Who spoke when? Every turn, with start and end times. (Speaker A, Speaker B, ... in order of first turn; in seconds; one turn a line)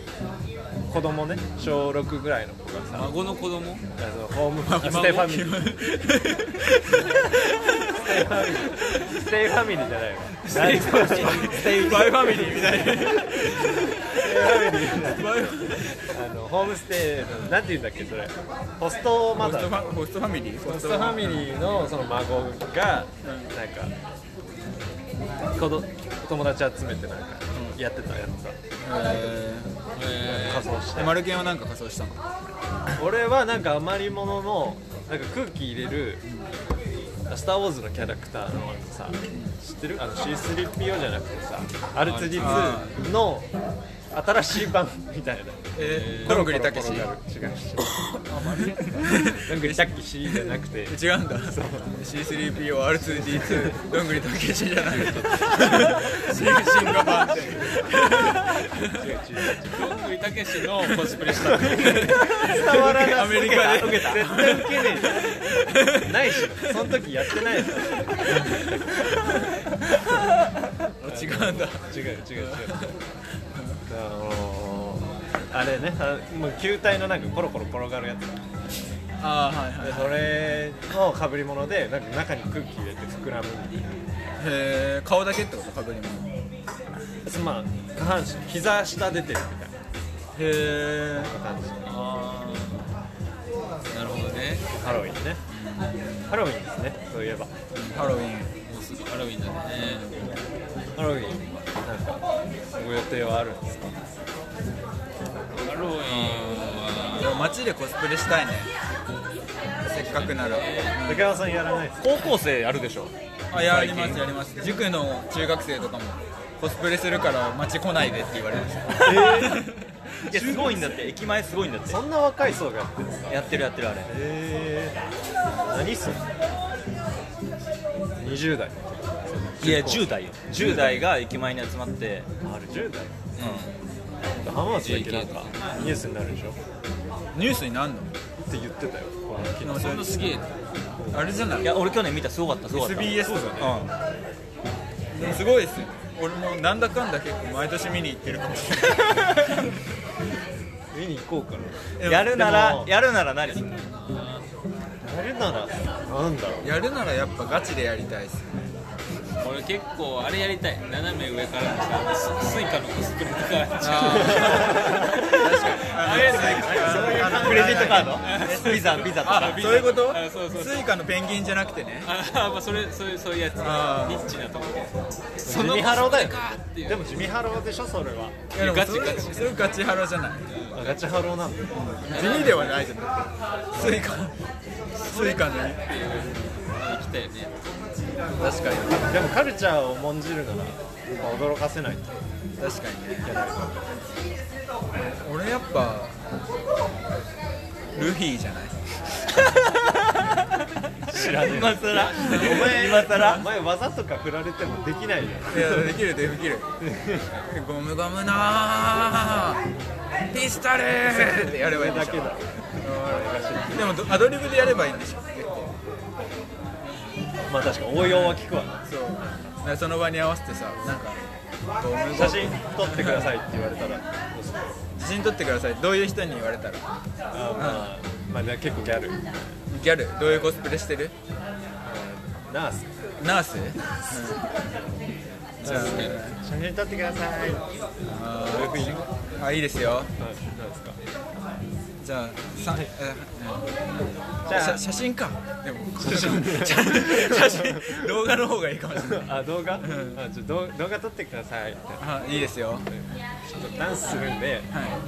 Speaker A: 0.9-3.1
Speaker B: 2.9-3.8
Speaker A: 4.0-5.7
Speaker C: 4.6-8.1
Speaker A: 7.9-13.3
Speaker B: 10.4-11.8
Speaker C: 10.7-16.0
Speaker A: 14.1-19.8
Speaker C: 19.4-21.5
Speaker A: 20.6-23.9
Speaker C: 23.2-23.5
Speaker A: 25.5-28.6
Speaker C: 27.5-27.8
Speaker C: 28.8-29.7
Speaker B: 29.9-30.7
Speaker A: 30.2-31.2
Speaker C: 30.9-32.2
Speaker A: 33.0-36.2
Speaker A: 37.3-43.5
Speaker B: 42.0-42.9
Speaker C: 42.4-43.0
Speaker A: 44.1-48.2
Speaker C: 45.8-47.1
Speaker B: 45.8-46.4
Speaker C: 48.2-58.9
Speaker A: 48.9-51.9
Speaker A: 53.2-53.8
Speaker A: 55.2-55.9
Speaker A: 57.5-57.8
Speaker A: 58.9-59.8
Speaker B: 59.7-62.1
Speaker A: 61.6-69.5
Speaker C: 61.8-66.7
Speaker D: 62.9-64.3
Speaker C: 68.2-70.2
Speaker C: 71.0-73.0
Speaker A: 71.0-73.0
Speaker C: 73.5-73.8
Speaker A: 73.9-78.5
Speaker C: 79.2-80.6
Speaker A: 79.8-84.1
Speaker C: 84.4-86.3
Speaker A: 87.3-89.8
Speaker C: 90.3-91.3
Speaker A: 91.2-92.0
Speaker B: 91.8-92.9
Speaker B: 93.9-94.7
Speaker A: 94.7-95.4
Speaker C: 95.5-96.3
Speaker A: 96.3-97.5
Speaker C: 97.8-98.5
Speaker B: 98.7-100.2
Speaker C: 99.8-100.2
Speaker A: 101.0-104.2
Speaker B: 105.6-107.5
Speaker C: 106.1-108.7
Speaker C: 109.9-111.4
Speaker B: 110.0-111.0
Speaker A: 111.0-112.3
Speaker D: 112.0-113.1
Speaker C: 113.5-120.8
Speaker D: 113.7-114.2
Speaker A: 118.9-119.7
Speaker D: 120.3-122.0
Speaker A: 120.5-120.8
Speaker A: 121.9-125.0
Speaker D: 123.3-124.1
Speaker A: 125.6-126.3
Speaker A: 128.2-130.8
Speaker D: 129.6-132.3
Speaker C: 130.6-131.1
Speaker A: 132.4-133.3
Speaker D: 133.4-133.7
Speaker A: 134.3-136.6
Speaker B: 134.8-135.7
Speaker C: 137.3-138.1
Speaker A: 138.4-140.0
Speaker C: 139.6-140.4
Speaker B: 139.7-140.5
Speaker A: 141.0-141.4
Speaker C: 141.1-141.9
Speaker D: 141.6-143.9
Speaker C: 142.7-143.7
Speaker A: 143.1-143.8
Speaker C: 145.1-149.5
Speaker A: 150.9-152.9
Speaker C: 152.0-152.5
Speaker D: 152.0-153.8
Speaker B: 153.5-154.5
Speaker A: 155.0-156.7
Speaker C: 156.6-158.6
Speaker B: 159.4-170.9
Speaker C: 163.8-172.1
Speaker A: 164.2-165.2
Speaker A: 166.2-168.2
Speaker D: 167.3-169.6
Speaker B: 172.0-175.0
Speaker C: 173.6-174.3
Speaker A: 175.4-178.4
Speaker C: 175.5-176.0
Speaker B: 175.5-177.1
Speaker B: 178.5-179.7
Speaker C: 178.5-180.4
Speaker B: 180.5-181.0
Speaker A: 180.7-182.6
Speaker C: 181.7-184.3
Speaker B: 182.1-182.7
Speaker A: 183.8-184.1
Speaker B: 185.0-187.6
Speaker C: 185.0-185.8
Speaker C: 188.4-189.2
Speaker A: 189.1-192.2
Speaker C: 192.6-193.3
Speaker A: 193.2-193.7
Speaker C: 195.2-196.2
Speaker C: 197.9-199.7
Speaker A: 201.1-205.9
Speaker D: 201.1-203.5
Speaker B: 201.9-202.6
Speaker C: 202.2-203.5
Speaker C: 205.5-206.7
Speaker A: 206.8-207.3
Speaker C: 207.5-209.6
Speaker C: 210.3-215.7
Speaker A: 211.1-214.0
Speaker C: 216.8-217.2
Speaker A: 217.5-219.4
Speaker C: 218.0-221.2
Speaker A: 220.7-221.0
Speaker C: 221.8-223.3
Speaker A: 222.1-224.8
Speaker C: 225.0-226.8
Speaker A: 227.3-229.6
Speaker C: 227.6-227.9
Speaker C: 229.7-231.1
Speaker A: 230.2-230.6
Speaker A: 231.8-233.1
Speaker C: 233.2-234.4
Speaker C: 235.6-236.4
Speaker A: 235.6-237.7
Speaker C: 238.1-240.1
Speaker A: 238.3-239.0
Speaker A: 240.2-241.0
Speaker C: 242.0-243.7
Speaker A: 242.6-242.9
Speaker A: 244.5-244.8
Speaker C: 244.5-250.2
Speaker A: 246.0-248.1
Speaker A: 248.9-252.1
Speaker C: 252.0-252.9
Speaker A: 252.9-254.8
Speaker C: 254.7-255.0